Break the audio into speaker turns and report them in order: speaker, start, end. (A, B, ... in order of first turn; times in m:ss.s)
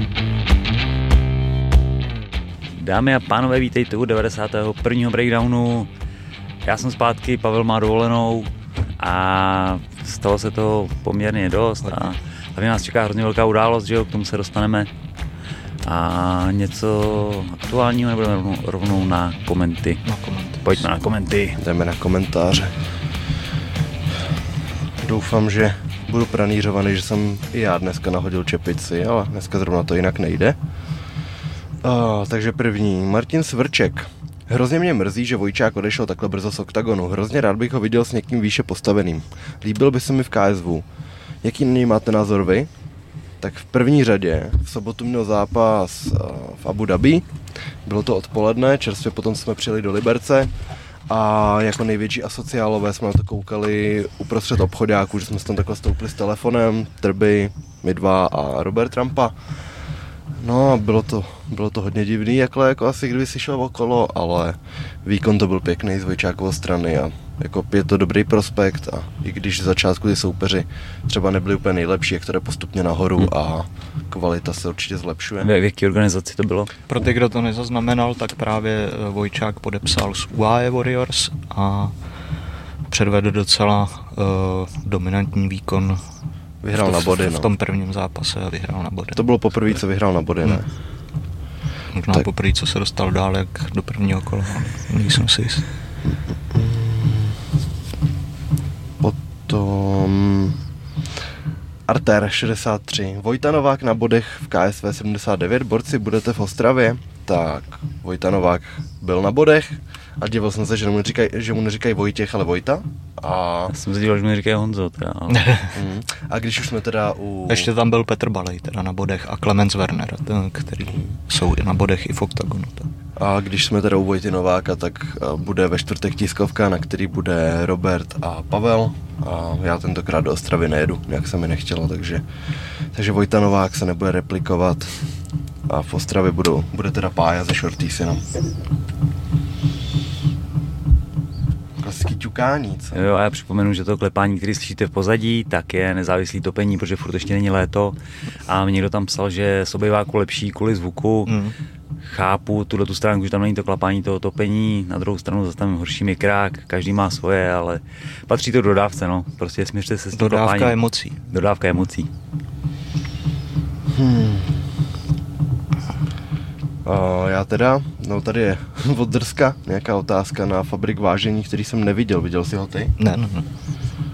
0:02.8-0:05.9 A
0:06.6-0:14.9 A
0:11.8-0:12.1 B
0:15.8-0:20.0 A
0:20.0-0:20.6 B
0:20.6-0:21.6 A
0:21.6-0:22.7 C
0:25.0-0:30.6 C
0:31.8-0:40.9 C
0:41.4-0:42.7 C
0:43.4-0:47.3 C
0:47.9-0:50.5 C
0:51.1-0:59.4 C
1:00.4-1:15.5 C
1:15.4-1:16.7 A
1:16.9-1:21.9 B
1:22.9-1:26.0 B
1:26.6-1:27.5 C
1:26.7-1:29.2 B
1:29.2-1:30.7 C
1:31.9-1:35.7 B
1:36.1-1:37.4 C
1:39.0-1:40.6 C
1:41.9-1:53.7 C
1:53.7-1:55.5 A
1:55.3-1:55.8 B
1:55.7-1:57.7 C
1:57.5-2:02.9 B
2:03.2-2:12.2 C
2:12.9-2:15.0 C
2:15.7-2:18.3 C
2:21.8-2:23.0 C
2:22.9-2:31.4 A
2:31.3-2:31.5 B
2:32.0-2:42.1 A
2:40.1-2:41.2 B
2:43.9-2:44.7 C
2:46.8-2:52.9 C
2:53.0-2:53.5 B